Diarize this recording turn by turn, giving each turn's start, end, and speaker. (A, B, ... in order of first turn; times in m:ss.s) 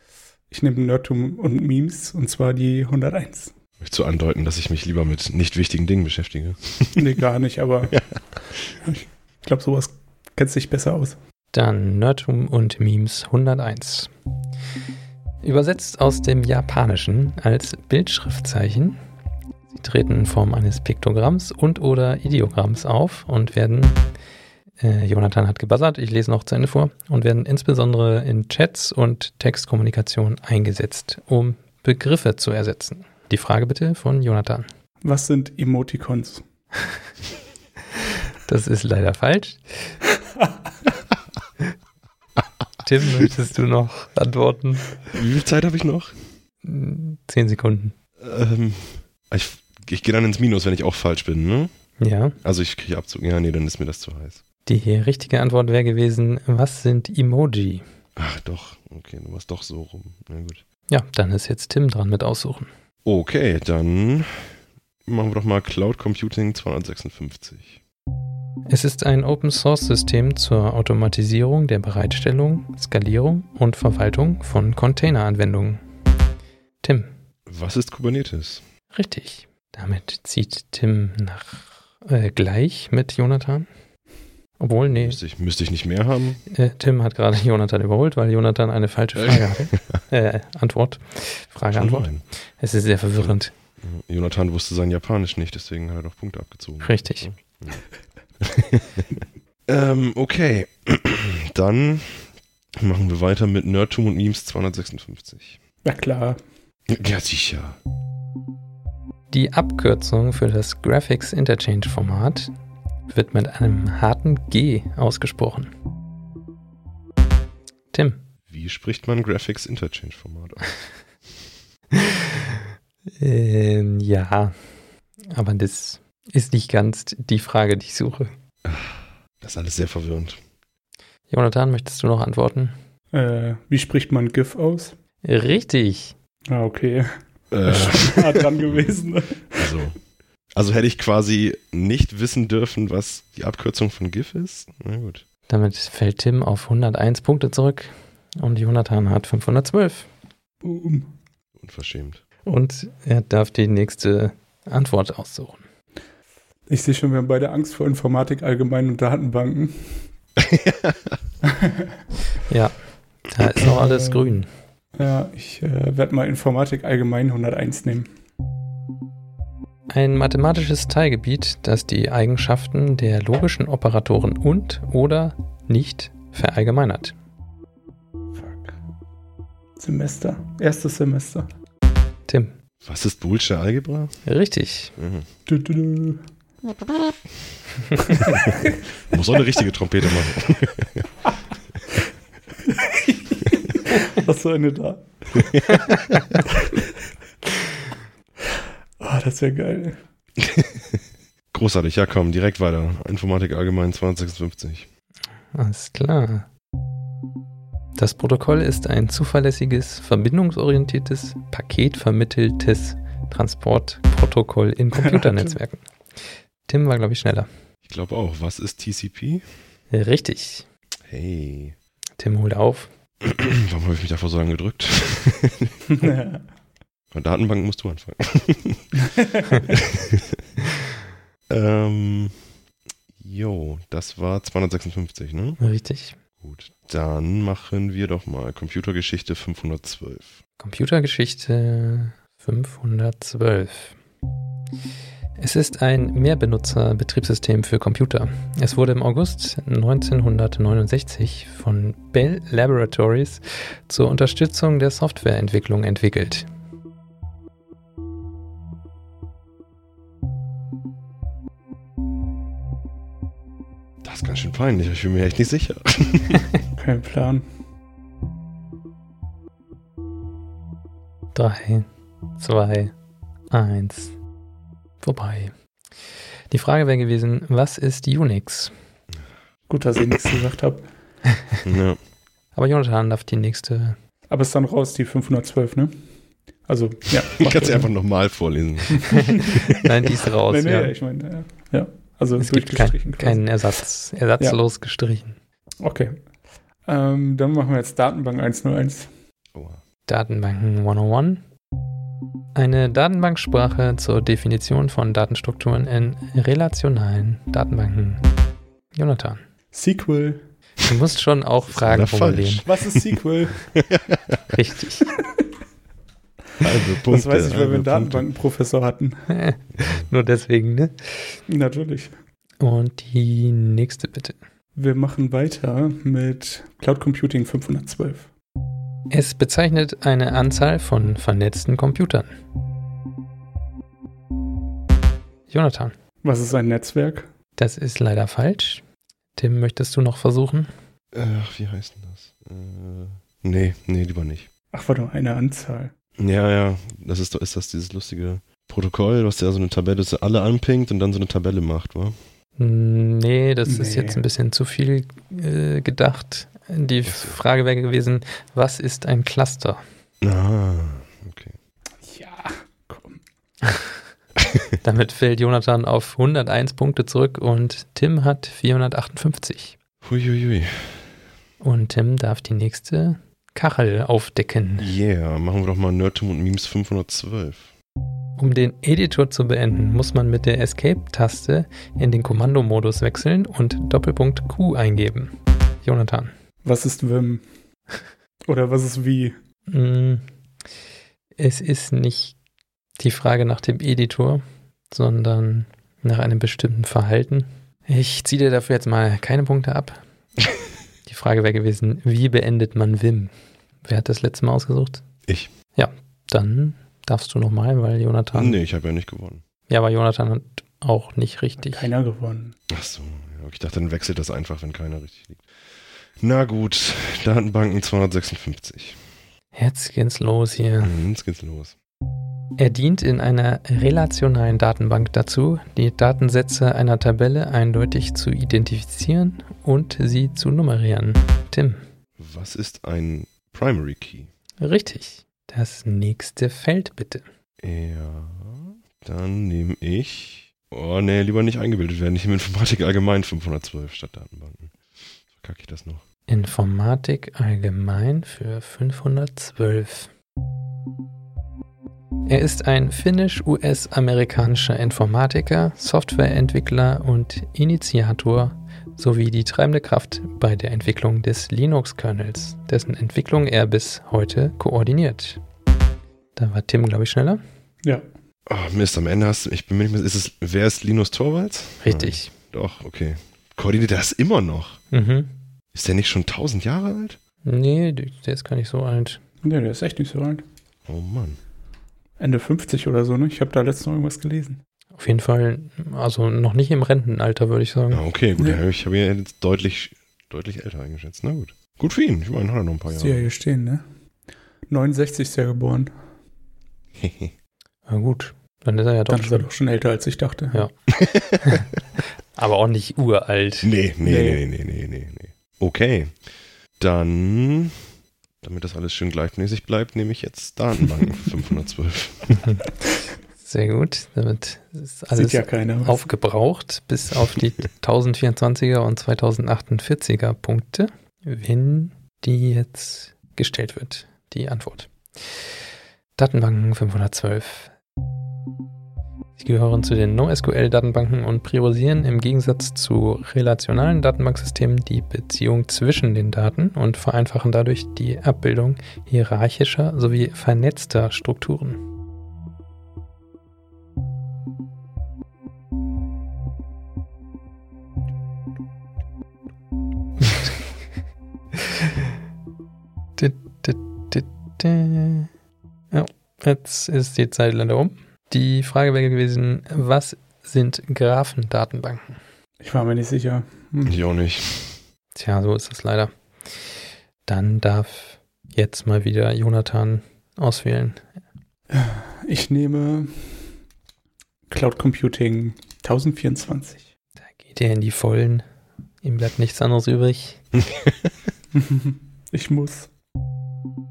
0:00.5-0:03.5 A
0:03.8-0:07.2 B
0:07.0-0:08.0 A
0:07.9-0:08.8 B
0:08.8-0:11.2 A
0:11.5-0:14.1 C
0:15.4-0:19.0 C
0:19.7-0:24.0 C
0:24.8-0:34.7 C
0:35.0-0:36.4 A
0:38.4-0:39.6 C
0:42.8-0:45.0 C
0:45.1-0:46.1 B
0:46.6-0:47.9 C
0:48.2-0:51.7 B
0:52.0-0:52.4 C
0:52.4-0:54.4 B
0:54.6-0:57.8 C
0:58.2-1:00.6 B
1:00.9-1:02.7 C
1:03.0-1:04.5 B
1:05.0-1:07.8 B
1:08.7-1:15.8 C
1:16.8-1:17.1 C
1:17.4-1:18.6 B
1:18.9-1:23.7 C
1:24.6-1:25.2 C
1:24.9-1:26.4 B
1:26.5-1:33.5 C
1:29.2-1:30.0 B
1:31.7-1:32.2 B
1:33.2-1:37.8 B
1:36.8-1:37.3 C
1:38.4-1:45.6 B
1:45.8-1:46.4 A
1:46.9-1:47.8 B
1:49.3-1:52.5 C
1:53.1-1:55.7 C
1:57.9-1:58.2 C
1:58.5-2:00.8 B
2:01.9-2:02.6 C
2:03.2-2:04.5 C
2:05.3-2:08.3 C
2:08.6-2:10.4 B
2:11.3-2:12.7 C
2:13.1-2:15.0 A
2:15.2-2:16.2 C
2:16.5-2:19.7 A
2:17.5-2:18.9 B
2:19.6-2:20.0 B
2:20.5-2:25.2 B
2:25.5-2:30.1 C
2:30.6-2:31.1 A
2:31.6-2:32.2 B
2:32.4-2:35.6 C
2:36.7-2:40.0 A
2:40.4-2:41.2 B
2:41.4-2:41.9 A
2:42.5-2:42.7 C
2:43.3-2:44.5 C
2:43.6-2:44.4 A
2:44.9-2:48.1 A
2:49.9-2:57.1 C
2:58.4-2:58.7 A
2:59.8-3:01.5 A
3:02.3-3:02.6 C
3:02.8-3:04.2 B
3:04.2-3:04.9 C
3:05.0-3:05.3 B
3:05.4-3:06.2 A
3:08.1-3:08.4 A
3:08.3-3:08.6 B
3:09.1-3:11.1 B
3:12.6-3:15.6 A
3:15.4-3:15.7 B
3:15.7-3:16.2 C
3:16.5-3:16.8 A
3:19.0-3:20.0 A
3:20.4-3:24.9 B
3:25.5-3:26.5 C
3:28.0-3:35.8 C
3:35.0-3:35.5 A
3:36.7-3:37.5 C
3:37.8-3:39.4 B
3:39.9-3:40.6 C
3:41.0-3:41.8 B
3:42.2-3:42.9 C
3:43.2-3:45.8 B
3:45.9-3:46.4 A
3:47.1-3:48.9 B
3:49.0-3:49.6 A
3:49.6-3:50.4 B
3:51.5-3:52.4 B
3:53.2-3:55.6 B
3:55.6-3:56.2 C
3:56.4-4:00.4 B
4:00.6-4:04.0 C
4:05.4-4:16.5 C
4:24.0-4:26.4 B
4:26.7-4:27.4 A
4:31.3-4:31.9 C
4:32.4-4:32.9 C
4:33.5-4:34.1 C
4:35.0-4:35.5 C
4:36.5-4:38.7 C
4:39.7-4:40.8 A
4:41.6-4:42.0 B
4:42.5-4:44.0 C
4:44.3-4:45.9 A
4:46.6-4:47.9 A
4:47.4-4:49.8 B
4:49.0-4:49.6 A
4:49.1-4:50.9 C
4:50.5-4:53.4 A
4:52.4-4:55.4 C
4:55.8-4:56.2 A
4:56.9-4:59.1 A
4:59.5-4:59.8 B
5:00.1-5:01.4 C
5:02.5-5:08.2 C
5:08.9-5:09.4 C
5:09.7-5:10.4 A
5:10.8-5:12.6 C
5:11.7-5:14.6 B
5:12.6-5:13.6 A
5:14.5-5:15.1 C
5:16.6-5:18.2 B
5:17.0-5:19.2 A
5:19.3-5:21.4 C
5:21.5-5:22.1 A
5:22.6-5:24.4 C
5:24.8-5:28.3 A
5:29.1-5:32.3 C
5:35.5-5:35.9 C
5:36.2-5:37.3 A
5:37.6-5:38.8 C
5:39.4-5:40.7 C
5:41.1-5:44.5 B
5:44.7-5:45.9 A
5:46.2-5:52.2 B
5:52.6-5:59.8 C
5:53.6-5:54.2 A
5:57.0-5:57.4 B
6:00.2-6:01.6 B
6:02.0-6:03.2 A
6:04.4-6:04.7 B
6:04.8-6:09.8 C
6:10.0-6:11.2 B
6:11.6-6:14.9 C
6:14.8-6:17.7 B
6:18.4-6:26.3 C
6:26.6-6:27.4 A
6:28.5-6:29.3 A
6:29.7-6:30.2 C
6:31.4-6:32.4 C
6:33.0-6:40.0 C
6:41.0-6:43.3 C
6:43.8-6:45.0 C
6:45.3-6:45.5 B
6:45.8-6:48.6 C
6:48.3-6:49.4 B
6:49.7-6:51.9 C
6:51.6-6:52.6 A
6:52.7-6:55.4 B
6:56.2-6:59.0 B
6:59.5-7:00.9 C
7:00.8-7:01.7 B
7:02.6-7:11.8 C
7:12.2-7:14.3 B
7:14.6-7:17.2 C
7:17.6-7:24.7 B
7:25.3-7:26.0 B
7:26.3-7:30.1 C
7:32.2-7:45.4 C
7:46.4-7:47.4 C
7:48.5-7:54.8 B
7:51.8-7:52.3 C
7:54.9-7:55.3 C
7:55.7-7:57.2 B
7:57.4-7:59.2 C
7:59.4-8:00.4 A
8:00.8-8:01.4 B
8:02.2-8:04.6 A
8:04.9-8:08.0 C
8:07.9-8:13.3 B
8:12.9-8:13.8 A
8:14.7-8:15.9 A
8:17.0-8:17.3 B
8:17.9-8:19.4 C
8:19.1-8:20.6 A
8:20.9-8:21.6 B
8:21.4-8:21.7 C
8:22.4-8:23.7 C
8:23.6-8:26.2 B
8:24.0-8:24.4 A
8:26.8-8:27.8 B
8:28.4-8:32.4 B
8:33.4-8:44.9 C
8:35.1-8:36.0 A
8:46.2-8:47.7 C
8:49.4-9:01.8 C
9:13.2-9:15.3 C
9:15.9-9:22.2 C
9:22.6-9:24.0 A
9:23.8-9:24.8 B
9:25.1-9:26.1 C
9:27.3-9:31.0 C
9:31.7-9:33.4 A
9:34.5-9:36.8 A
9:37.3-9:38.4 C
9:39.0-9:40.4 C
9:40.7-9:41.1 B
9:41.5-9:42.9 A